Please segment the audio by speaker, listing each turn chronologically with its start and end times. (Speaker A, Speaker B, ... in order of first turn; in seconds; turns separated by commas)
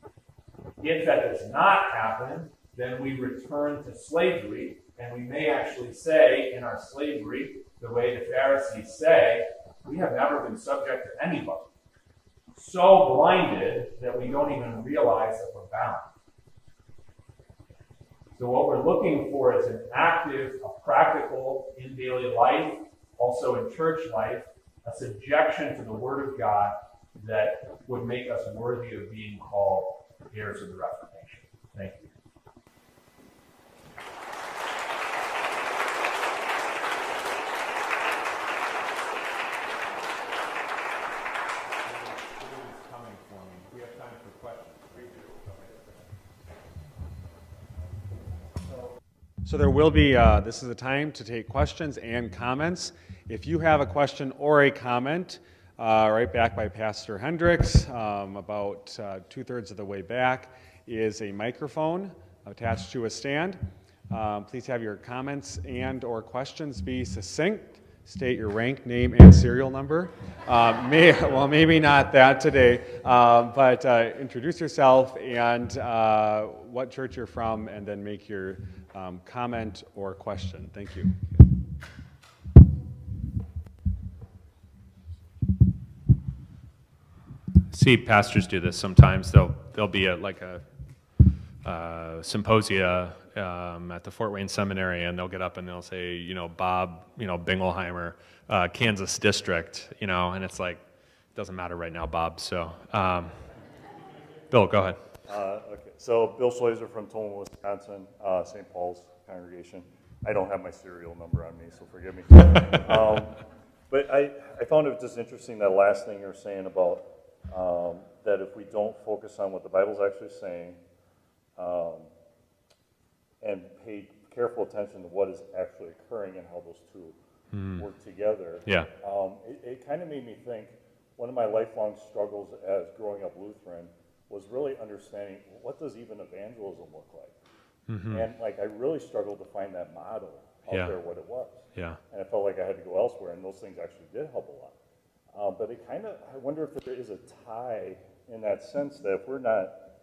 Speaker A: 0.8-11.7, Speaker A: 12.5-16.1, Speaker A: 18.4-32.1, Speaker A: 41.8-45.9, Speaker B: 49.4-81.3, Speaker C: 87.7-90.6, Speaker C: 91.6-100.8, Speaker C: 101.3-103.4, Speaker C: 104.5-105.0, Speaker D: 105.3-120.8, Speaker D: 121.6-122.1, Speaker D: 123.4-127.2, Speaker C: 127.5-127.8, Speaker D: 127.8-137.3, Speaker C: 128.7-128.9, Speaker C: 137.9-138.2, Speaker D: 138.1-144.8, Speaker C: 140.7-141.0, Speaker C: 141.7-142.0, Speaker D: 145.3-149.9